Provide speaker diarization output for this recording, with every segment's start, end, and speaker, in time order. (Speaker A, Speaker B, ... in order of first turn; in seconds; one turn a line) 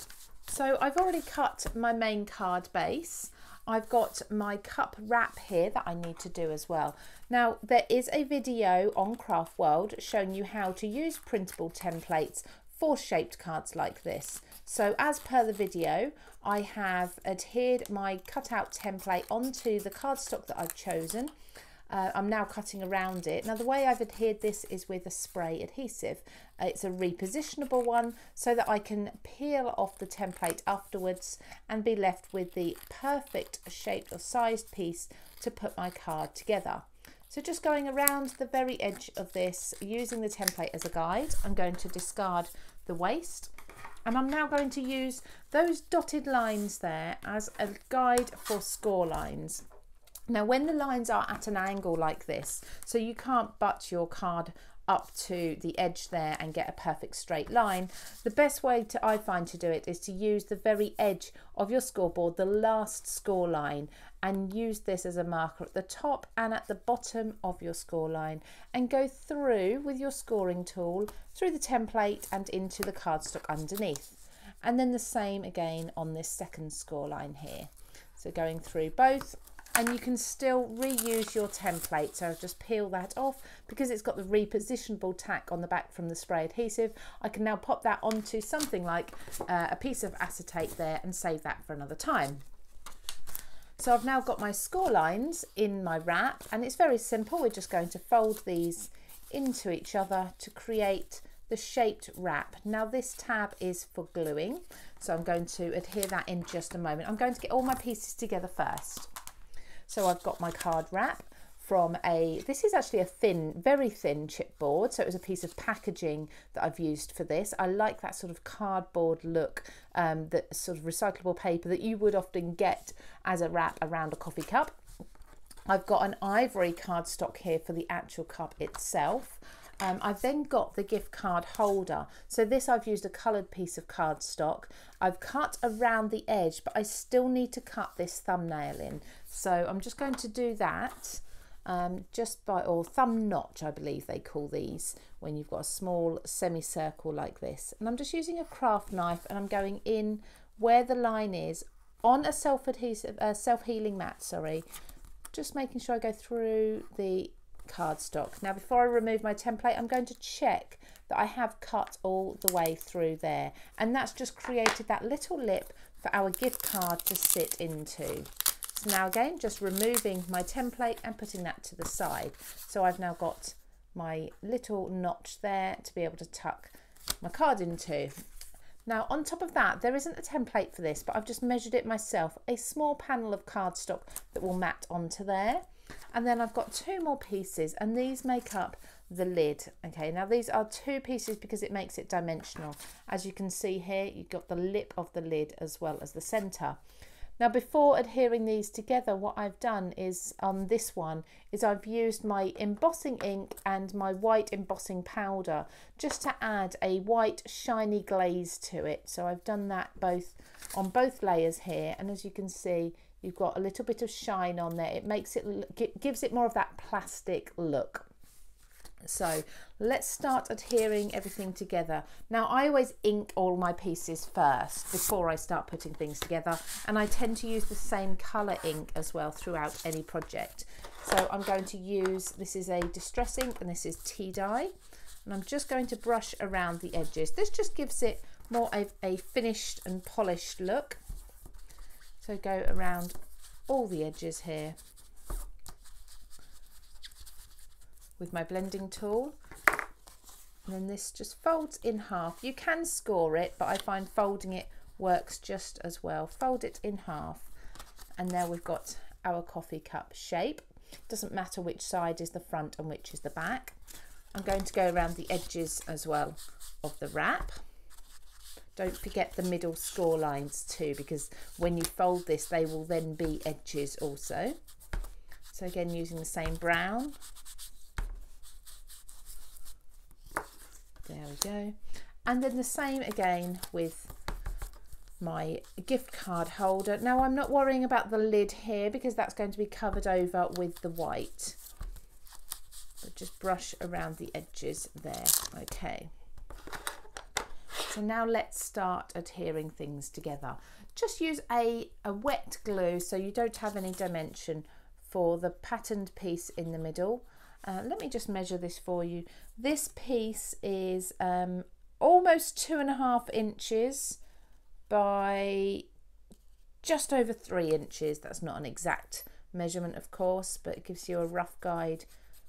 Speaker A: 0.5-21.3
Speaker A: 21.9-43.5
Speaker A: 44.1-49.6
Speaker A: 50.3-92.4
Speaker A: 93.8-109.1
Speaker A: 109.9-124.8
Speaker A: 125.7-154.7
Speaker A: 155.3-178.1
Speaker A: 178.9-196.8
Speaker A: 197.4-218.1
Speaker A: 219.0-234.7
Speaker A: 235.2-241.0
Speaker A: 242.2-243.2
Speaker A: 243.7-244.8
Speaker A: 248.2-249.4
Speaker A: 250.7-257.5
Speaker A: 258.2-263.8
Speaker A: 264.3-267.6
Speaker A: 268.8-274.6
Speaker A: 275.5-277.2
Speaker A: 281.1-284.1
Speaker A: 285.2-291.6
Speaker A: 293.0-296.1
Speaker A: 297.9-314.2
Speaker A: 314.9-315.9
Speaker A: 316.8-322.1